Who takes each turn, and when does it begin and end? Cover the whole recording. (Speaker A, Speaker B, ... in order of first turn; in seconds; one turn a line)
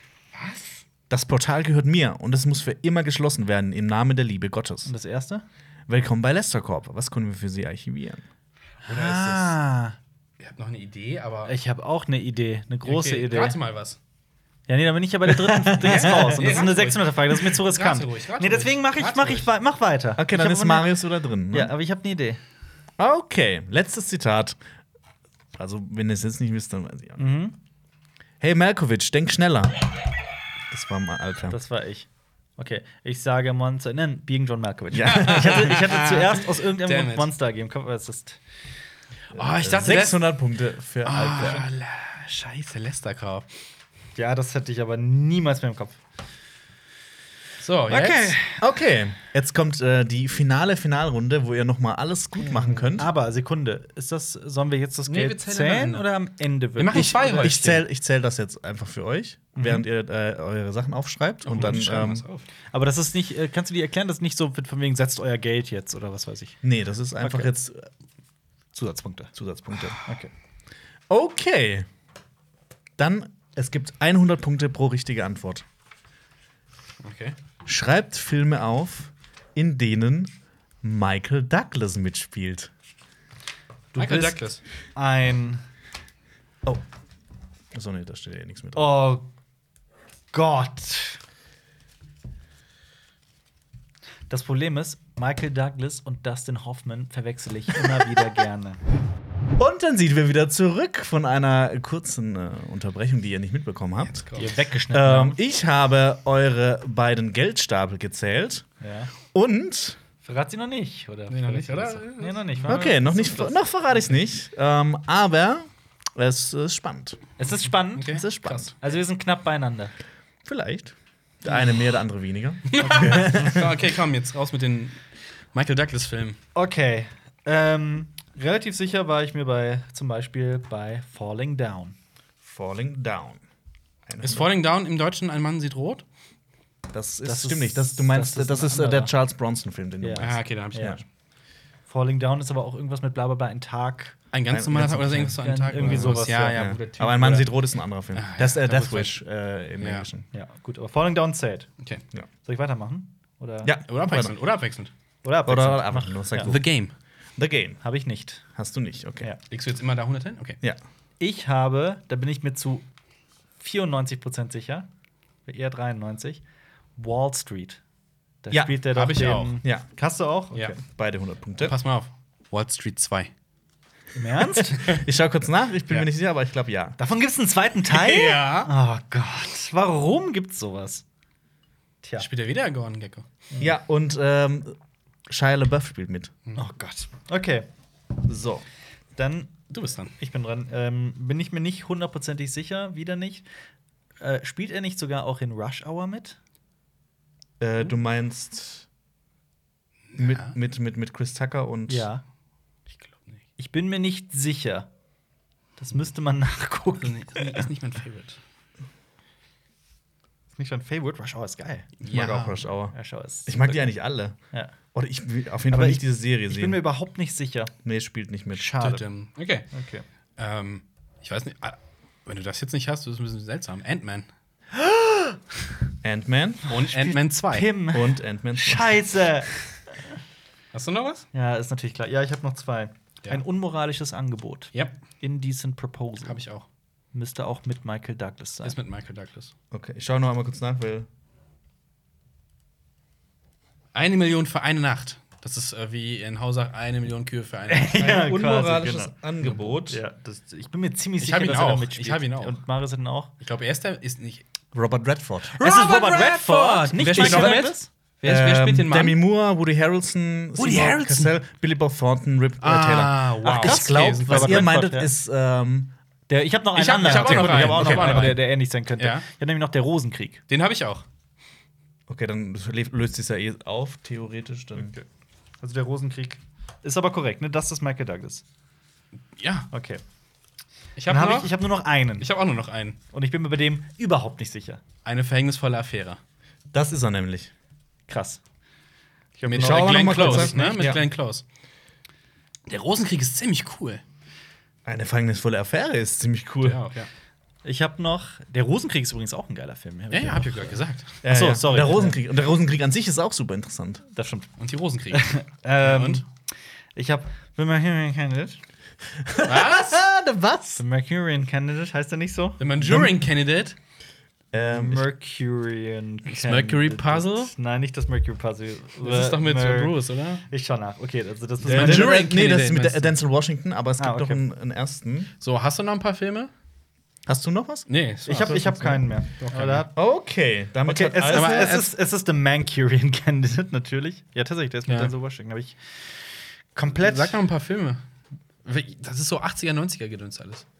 Speaker A: 0.3-0.8
Speaker B: 1.1-4.9
Speaker C: 4.8-5.4
Speaker B: 5.9-8.2
Speaker A: 8.8-9.6
Speaker C: 8.8-9.9
Speaker A: 10.4-11.5
Speaker C: 11.4-13.6
Speaker A: 12.8-14.0
Speaker C: 14.7-21.0
Speaker B: 15.3-16.5
Speaker A: 15.8-19.5
Speaker B: 20.2-21.7
Speaker C: 21.5-22.4
Speaker B: 23.0-24.6
Speaker B: 25.5-27.2
Speaker C: 27.2-27.5
Speaker B: 28.4-29.9
Speaker B: 30.7-31.6
Speaker C: 31.5-38.4
Speaker B: 34.9-35.8
Speaker A: 35.0-37.3
Speaker B: 39.3-41.6
Speaker A: 39.3-40.4
Speaker A: 41.0-43.5
Speaker C: 44.1-46.0
Speaker A: 47.6-48.4
Speaker B: 47.9-53.1
Speaker C: 47.9-48.6
Speaker A: 52.4-53.0
Speaker C: 53.0-57.6
Speaker A: 55.1-56.1
Speaker A: 56.8-57.8
Speaker B: 57.0-62.2
Speaker C: 59.5-59.8
Speaker A: 61.4-62.4
Speaker C: 62.7-66.6
Speaker B: 66.6-67.9
Speaker C: 67.2-67.5
Speaker C: 68.7-69.3
Speaker B: 69.3-70.0
Speaker A: 69.8-70.1
Speaker B: 71.1-71.9
Speaker B: 73.0-75.6
Speaker A: 77.0-77.3
Speaker B: 77.6-80.3
Speaker B: 80.8-82.7
Speaker C: 83.9-85.6
Speaker A: 84.0-84.6
Speaker B: 87.7-89.0
Speaker C: 88.7-89.2
Speaker C: 90.3-91.2
Speaker C: 94.3-98.8
Speaker B: 99.6-104.3
Speaker A: 104.0-104.5
Speaker C: 104.3-105.4
Speaker B: 104.9-108.7
Speaker C: 108.8-109.1
Speaker B: 109.2-110.0
Speaker C: 110.2-113.6
Speaker A: 111.3-112.8
Speaker B: 112.7-117.2
Speaker C: 117.4-119.9
Speaker A: 118.0-118.7
Speaker B: 118.1-118.7
Speaker B: 120.4-123.8
Speaker A: 122.7-126.4
Speaker C: 126.5-131.9
Speaker B: 132.4-133.4
Speaker B: 134.1-134.5
Speaker A: 134.2-136.0
Speaker B: 136.9-141.0
Speaker C: 137.2-139.1
Speaker C: 140.0-141.0
Speaker A: 140.2-141.0
Speaker C: 141.9-144.2
Speaker A: 144.3-147.5
Speaker B: 144.5-150.2
Speaker C: 145.4-147.2
Speaker A: 148.1-149.2
Speaker A: 149.8-150.1
Speaker C: 150.3-151.7
Speaker C: 152.4-153.7
Speaker B: 153.6-154.3
Speaker A: 153.9-154.9
Speaker C: 155.2-156.5
Speaker B: 155.4-156.6
Speaker A: 156.4-156.9
Speaker B: 157.3-157.8
Speaker C: 157.8-158.4
Speaker B: 158.5-159.3
Speaker A: 159.5-160.6
Speaker C: 161.2-162.8
Speaker C: 163.6-164.9
Speaker C: 165.4-166.4
Speaker C: 167.0-167.8
Speaker C: 168.4-170.7
Speaker B: 168.5-168.8
Speaker A: 168.9-169.6
Speaker B: 170.6-171.7
Speaker A: 171.6-173.3
Speaker C: 174.2-174.9
Speaker B: 174.6-177.0
Speaker C: 177.0-181.0
Speaker A: 177.9-178.7
Speaker A: 182.2-183.3
Speaker B: 183.6-184.8
Speaker B: 185.3-186.3
Speaker C: 186.5-187.7
Speaker B: 188.2-188.6
Speaker C: 189.2-189.5
Speaker A: 189.7-190.1
Speaker C: 190.2-193.4
Speaker C: 194.2-196.4
Speaker B: 197.6-198.9
Speaker A: 200.1-200.5
Speaker B: 200.2-202.1
Speaker C: 201.9-202.2
Speaker C: 203.6-204.9
Speaker C: 205.8-207.7
Speaker A: 207.0-208.4
Speaker C: 210.6-212.3
Speaker A: 212.0-212.6
Speaker B: 212.1-212.9
Speaker C: 212.9-213.8
Speaker B: 213.4-214.4
Speaker B: 214.9-216.8
Speaker C: 215.7-217.7
Speaker B: 217.8-218.7
Speaker C: 218.5-219.0
Speaker A: 218.8-219.7
Speaker C: 219.7-220.0
Speaker A: 220.4-224.3
Speaker C: 224.8-225.3
Speaker B: 226.0-226.7
Speaker A: 226.7-227.7
Speaker C: 226.7-229.5
Speaker B: 227.9-229.1
Speaker A: 230.7-231.2
Speaker C: 231.3-236.4
Speaker A: 236.2-236.6
Speaker C: 237.1-238.8
Speaker A: 238.6-239.5
Speaker B: 239.7-241.1
Speaker A: 243.9-248.2
Speaker C: 247.7-253.3
Speaker B: 248.0-250.0
Speaker A: 251.2-252.6
Speaker A: 253.4-254.4
Speaker B: 254.7-255.6
Speaker A: 255.6-259.2
Speaker C: 255.6-257.9
Speaker B: 257.1-257.6
Speaker B: 258.2-265.9
Speaker A: 260.6-261.4
Speaker A: 262.6-264.8
Speaker C: 263.6-265.1
Speaker C: 266.3-270.4
Speaker A: 266.8-269.2
Speaker B: 267.0-268.2
Speaker A: 270.5-271.0
Speaker B: 272.1-274.9
Speaker C: 274.7-275.0
Speaker C: 275.6-278.4
Speaker A: 279.4-279.7
Speaker C: 279.7-280.0
Speaker A: 281.0-281.6
Speaker C: 281.1-282.3
Speaker A: 282.2-283.0
Speaker C: 283.1-284.8
Speaker A: 285.0-286.2
Speaker B: 286.7-287.5
Speaker C: 288.1-288.4
Speaker C: 289.4-290.8
Speaker A: 289.4-291.4
Speaker B: 289.6-291.0
Speaker A: 292.7-294.0
Speaker B: 294.8-296.8
Speaker A: 296.6-297.1
Speaker C: 297.6-302.1
Speaker A: 300.1-301.2
Speaker B: 301.2-304.0
Speaker C: 304.1-304.5
Speaker A: 304.6-305.3
Speaker C: 305.1-306.2
Speaker A: 305.8-306.2
Speaker C: 306.9-308.6
Speaker B: 309.2-310.8
Speaker A: 309.4-310.0
Speaker C: 310.8-312.6
Speaker A: 312.6-313.8
Speaker B: 312.8-313.1
Speaker B: 314.5-315.1
Speaker C: 314.7-319.9
Speaker A: 316.3-317.5
Speaker A: 319.0-320.4
Speaker C: 320.5-322.3
Speaker B: 321.6-325.3
Speaker A: 321.7-323.1
Speaker C: 324.0-324.4
Speaker A: 325.4-326.5
Speaker B: 327.3-329.0
Speaker A: 327.9-328.6
Speaker C: 328.2-329.9
Speaker A: 329.4-329.9
Speaker B: 329.9-331.8
Speaker C: 330.9-335.8
Speaker A: 331.3-331.9
Speaker A: 334.9-335.1
Speaker C: 336.7-337.4
Speaker A: 337.0-338.0
Speaker A: 338.6-340.6